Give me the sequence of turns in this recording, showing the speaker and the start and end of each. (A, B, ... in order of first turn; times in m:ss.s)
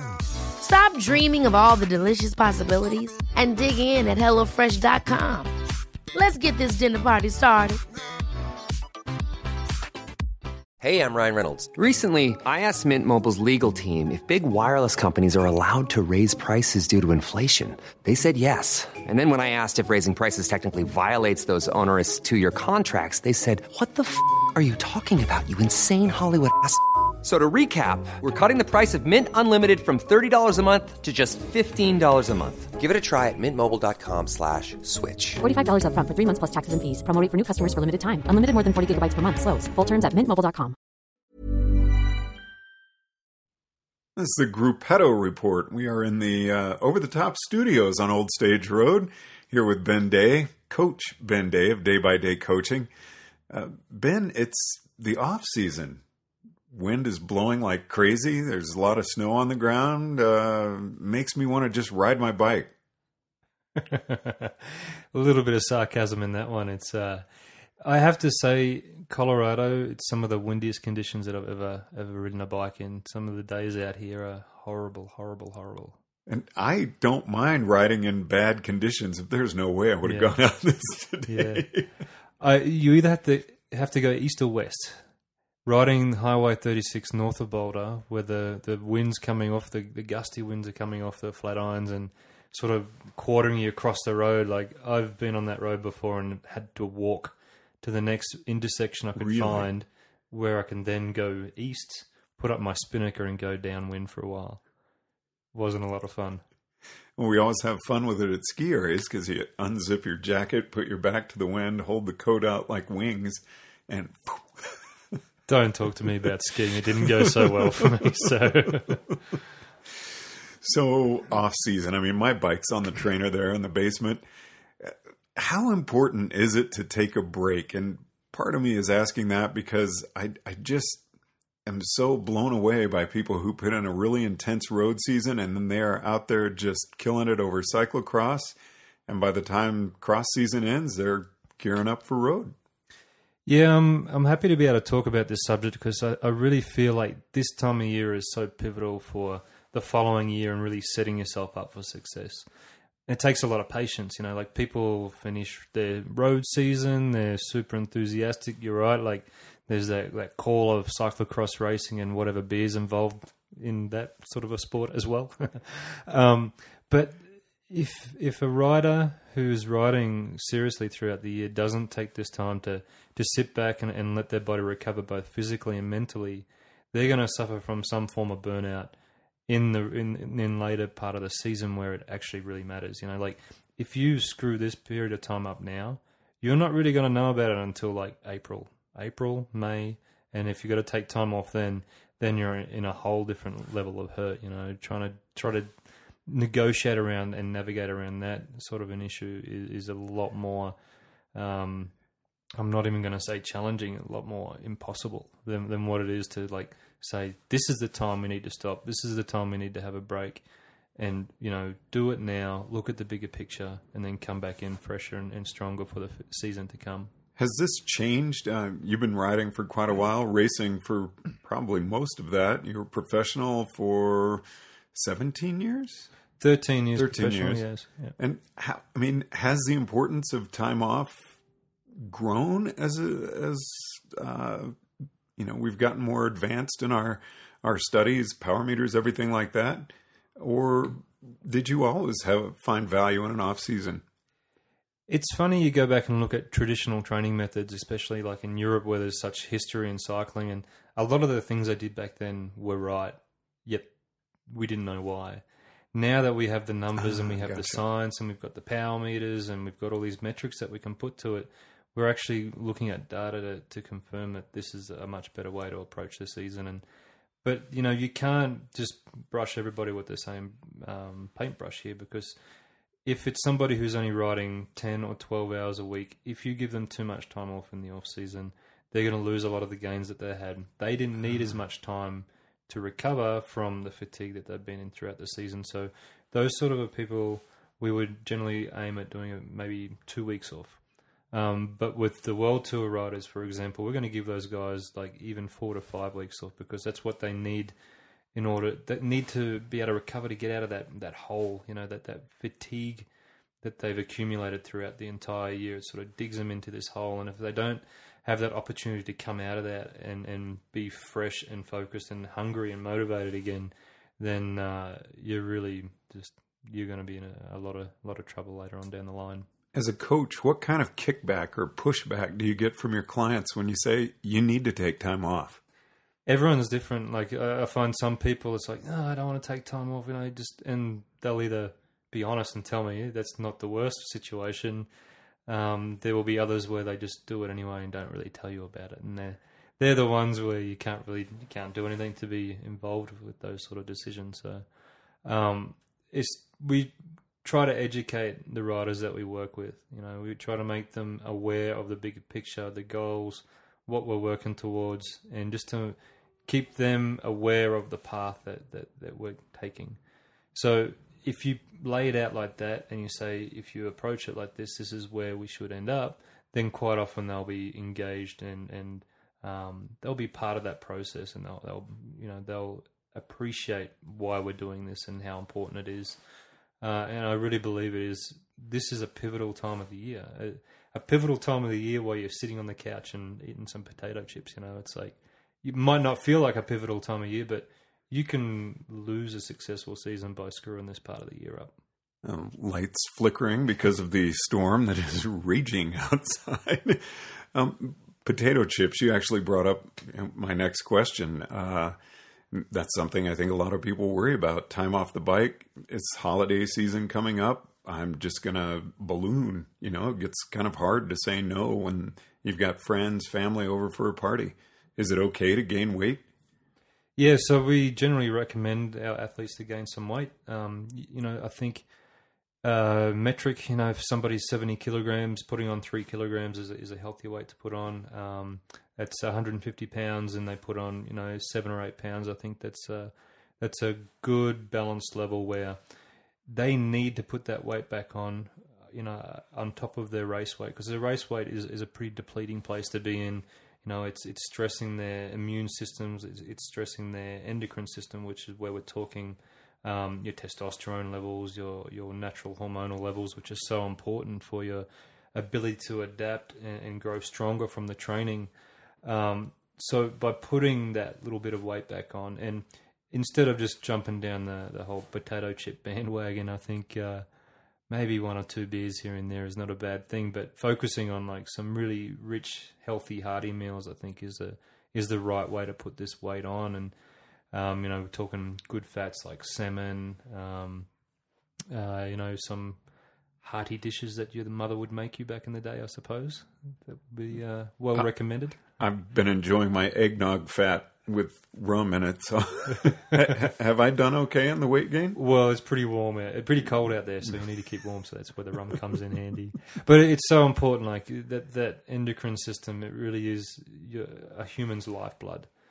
0:00.6-0:05.5 A
0:06.1-0:07.8 A
0:10.8-0:11.7 B
0:11.7-0:32.7 C
0:32.8-0:35.4 B
0:35.4-0:40.7 D
0:44.2-0:52.9 E
0:53.5-0:56.0 E
0:56.7-1:02.7 E
1:03.8-1:07.2 F
1:07.8-1:16.0 F
1:16.3-1:21.9 E
1:20.0-1:20.4 F
1:21.3-1:21.8 F
1:22.4-1:25.0 F
1:25.6-1:44.6 F
1:39.2-1:39.7 E
1:45.5-1:46.4 F
1:47.2-1:54.8 E
1:55.5-1:59.2 F
1:57.0-1:58.3 E
2:00.0-2:04.2 E
2:04.8-2:11.0 E
2:11.6-2:18.6 E
2:19.1-2:22.5 E
2:23.4-2:32.5 F
2:33.1-2:58.9 F
2:59.5-3:15.7 F
3:16.2-3:20.8 F
3:21.3-3:21.9 F
3:22.6-3:30.4 F
3:31.0-3:37.1 F
3:37.4-3:46.1 E
3:46.4-3:48.1 F
3:46.9-3:47.6 E
3:48.2-3:51.4 E
3:51.9-3:54.8 E
3:55.4-4:04.0 E
4:05.1-4:13.9 F
4:14.5-4:26.8 F
4:16.9-4:17.8 E
4:27.4-4:32.4 F
4:33.0-4:57.7 F
4:58.3-5:03.1 F
5:03.6-5:19.5 F
5:19.7-5:25.6 E
5:26.3-5:34.9 F
5:35.5-5:44.6 F
5:45.2-6:00.0 F
6:00.5-6:16.2 F
6:16.8-6:31.7 F
6:32.2-6:42.0 E
6:42.5-6:56.2 E
6:57.2-7:01.8 F
7:02.6-7:15.8 F
7:16.5-7:38.5 F
7:39.0-7:47.2 F
7:47.9-7:56.9 F
7:57.5-8:00.9 F
8:01.7-8:02.8 F
8:03.4-8:08.6 F
8:07.9-8:15.2 E
8:15.1-8:25.5 F